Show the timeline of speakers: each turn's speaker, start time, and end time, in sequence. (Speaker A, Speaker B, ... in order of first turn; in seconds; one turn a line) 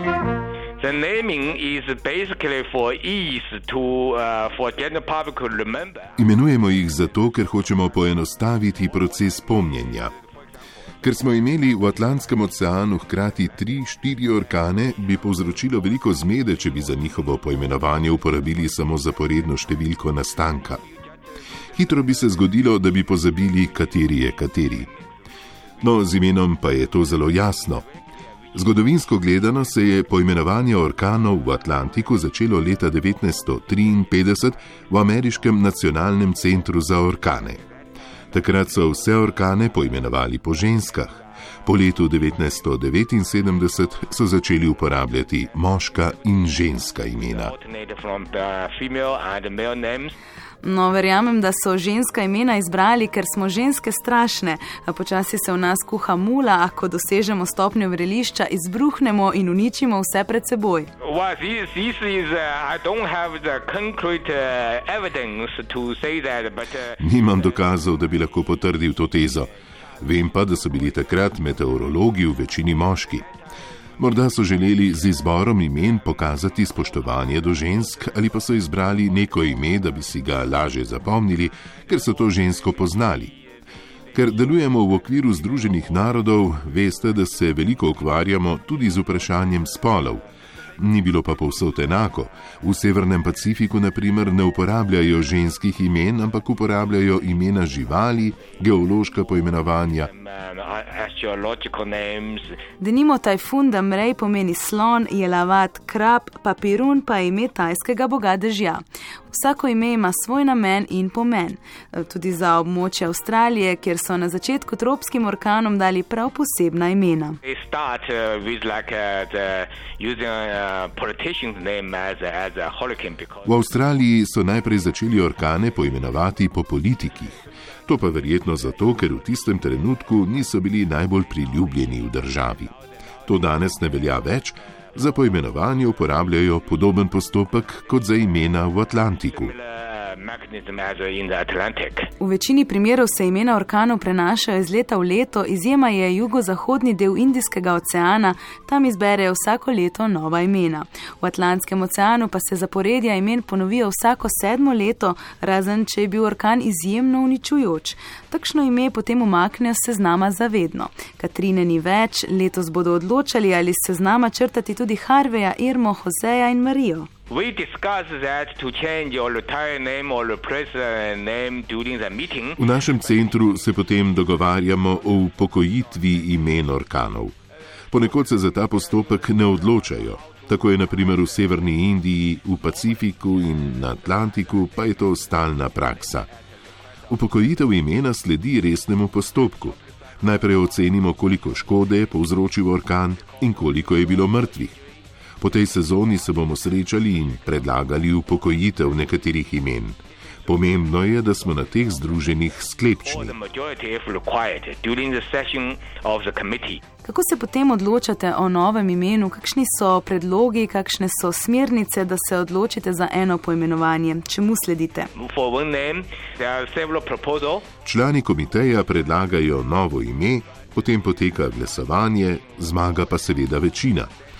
Speaker A: 0.8-6.1
Speaker B: 6.2-10.1
Speaker B: 11.0-20.8
Speaker B: 21.7-24.9
Speaker B: 25.8-27.9
Speaker B: 28.5-37.6
Speaker B: 38.3-47.5
Speaker A: 47.2-50.1
Speaker C: 50.6-60.9
Speaker A: 61.0-67.0
Speaker B: 67.0-69.5
Speaker B: 70.0-73.2
Speaker B: 74.0-83.3
Speaker B: 84.1-90.2
Speaker B: 90.8-100.1
Speaker A: 100.1-102.6
Speaker C: 102.8-117.4
Speaker A: 117.4-123.7
Speaker B: 123.5-132.7
Speaker B: 133.3-139.5
Speaker A: 139.3-142.1
Speaker C: 142.2-167.1
Speaker A: 167.3-172.6
Speaker B: 172.6-177.4
Speaker B: 177.9-186.3
Speaker B: 187.1-194.8
Speaker B: 195.4-203.3
Speaker A: 203.1-206.8
Speaker C: 207.0-215.1
Speaker A: 215.2-217.7
Speaker B: 217.8-224.1